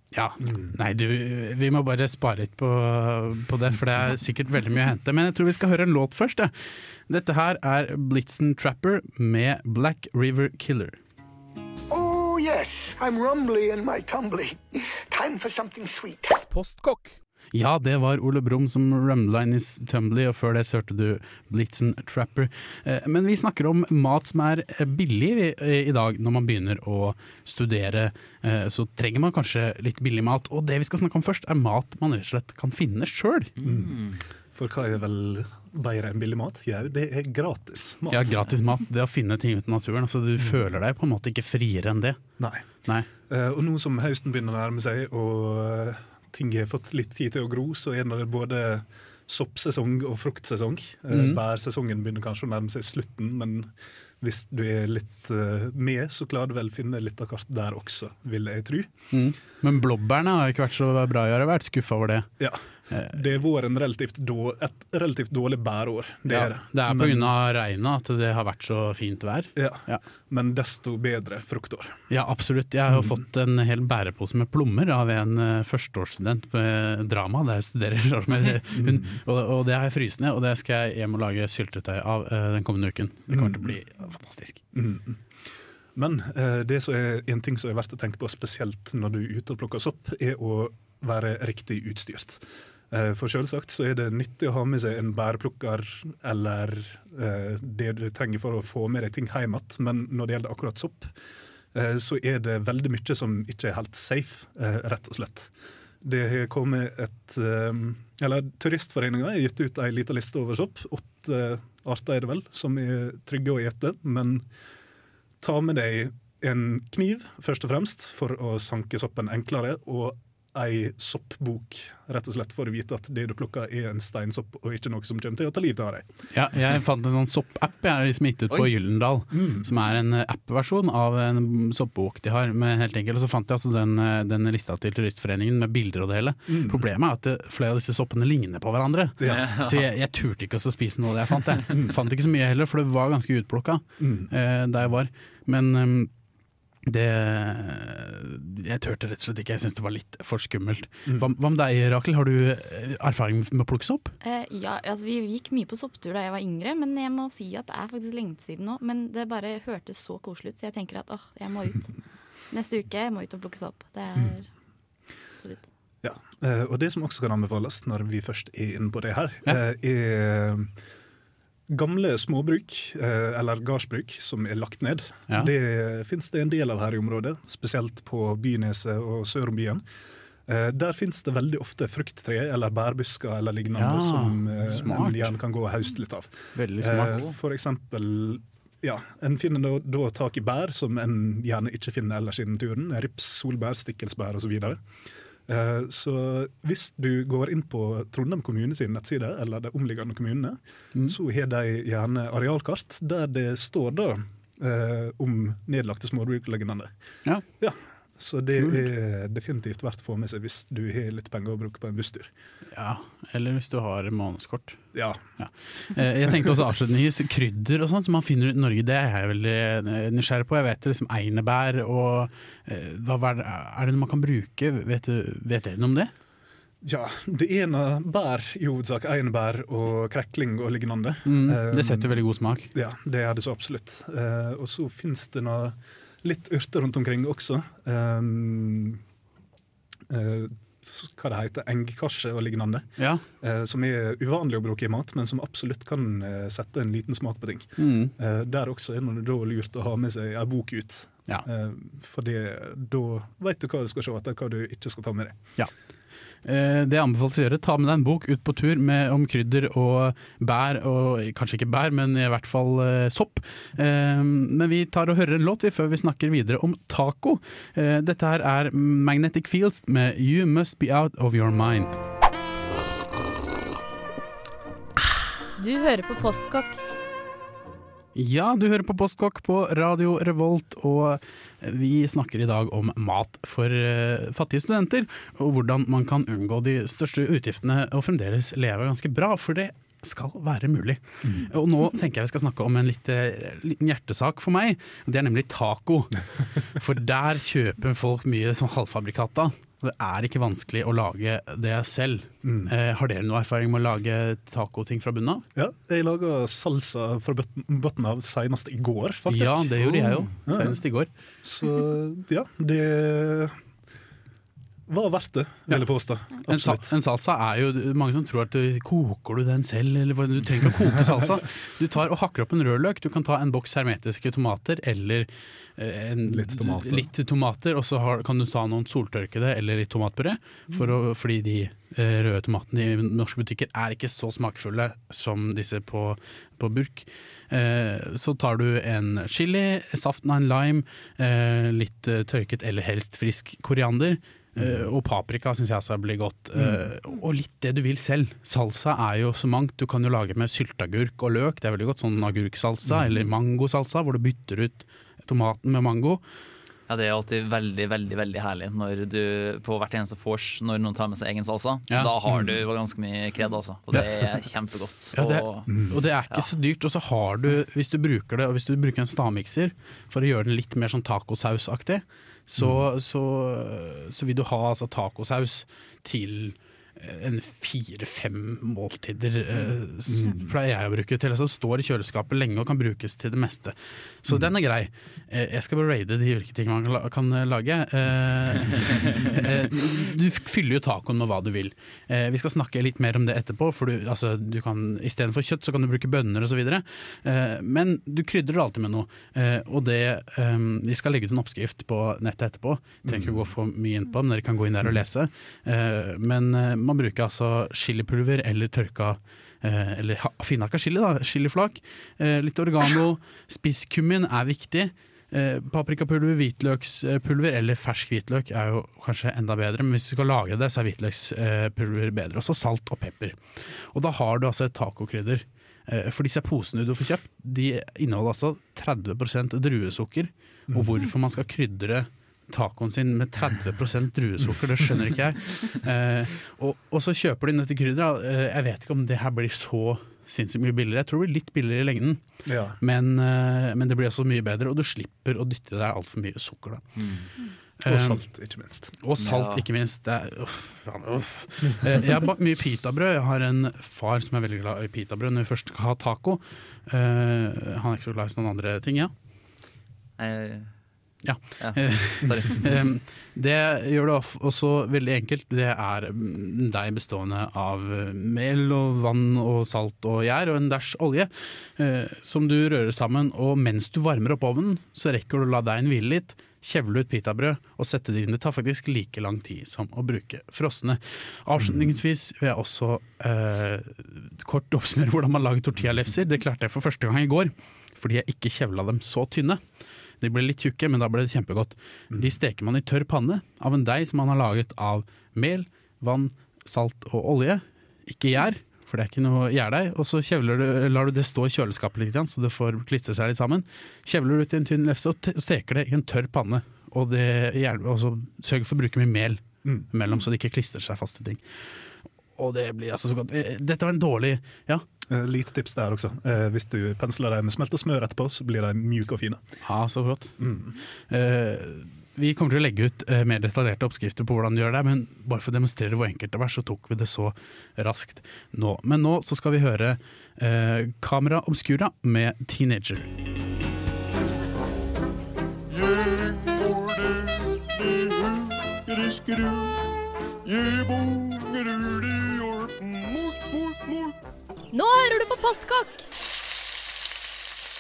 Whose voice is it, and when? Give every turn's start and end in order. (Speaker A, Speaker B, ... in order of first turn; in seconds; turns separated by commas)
Speaker A: 0.1-6.5, Speaker B: 0.4-0.7, Speaker A: 7.1-11.0, Speaker C: 11.9-16.4, Speaker A: 16.6-33.6, Speaker D: 33.6-34.2, Speaker B: 33.6-38.4, Speaker A: 38.1-42.2, Speaker B: 42.4-42.7, Speaker B: 43.3-53.7, Speaker A: 51.1-51.4, Speaker B: 54.2-58.9, Speaker A: 59.1-62.3, Speaker B: 62.4-67.3, Speaker A: 62.9-63.2, Speaker A: 66.3-70.0, Speaker B: 69.6-72.0, Speaker A: 72.1-84.6, Speaker B: 72.9-73.2, Speaker B: 78.7-79.2, Speaker B: 83.3-83.8, Speaker B: 84.7-85.2, Speaker B: 86.0-101.1, Speaker B: 101.7-105.5, Speaker B: 106.0-114.5, Speaker B: 115.4-126.1, Speaker A: 126.3-146.1, Speaker B: 129.3-129.7, Speaker B: 136.5-136.8, Speaker B: 139.2-139.6, Speaker D: 139.2-139.8, Speaker B: 144.0-144.3, Speaker A: 146.8-154.1, Speaker E: 154.2-161.9, Speaker E: 162.5-164.5, Speaker E: 165.4-165.7, Speaker B: 166.0-170.7, Speaker B: 171.7-179.8, Speaker B: 180.5-194.8, Speaker A: 183.7-185.4, Speaker A: 186.6-187.2, Speaker B: 195.5-206.9, Speaker B: 207.6-212.3, Speaker A: 208.6-208.9, Speaker A: 212.7-214.8, Speaker B: 214.9-215.2, Speaker A: 215.4-226.1, Speaker B: 226.8-232.2, Speaker A: 231.2-232.7, Speaker B: 232.7-239.0, Speaker B: 240.1-242.9, Speaker A: 243.0-243.2, Speaker B: 243.4-255.4, Speaker A: 247.8-248.1, Speaker A: 256.4-272.0, Speaker F: 275.6-276.8, Speaker A: 278.1-305.5, Speaker B: 302.4-302.7, Speaker B: 305.6-309.9, Speaker A: 309.3-311.1, Speaker D: 309.8-310.3, Speaker B: 310.5-310.8, Speaker B: 311.4-313.6, Speaker B: 314.9-316.9, Speaker A: 315.7-356.2, Speaker B: 326.3-327.1, Speaker B: 344.6-344.8, Speaker B: 346.6-346.9, Speaker D: 356.9-365.7, Speaker B: 362.3-362.5, Speaker A: 365.1-423.4, Speaker B: 365.7-366.0, Speaker B: 372.6-372.8, Speaker B: 379.5-380.5, Speaker B: 403.1-403.5, Speaker A: 423.9-442.2, Speaker B: 430.7-431.0, Speaker B: 442.5-442.8, Speaker A: 442.8-446.9, Speaker D: 447.0-447.3, Speaker A: 447.8-448.2, Speaker B: 447.9-448.9, Speaker A: 449.0-459.1, Speaker D: 449.2-449.6, Speaker D: 460.2-460.7, Speaker A: 461.2-489.6, Speaker D: 461.6-462.8, Speaker B: 481.6-481.9, Speaker A: 490.2-511.4, Speaker A: 512.4-514.9, Speaker B: 515.1-519.4, Speaker A: 519.6-520.4, Speaker B: 520.4-520.8, Speaker A: 521.1-533.1, Speaker F: 544.7-546.0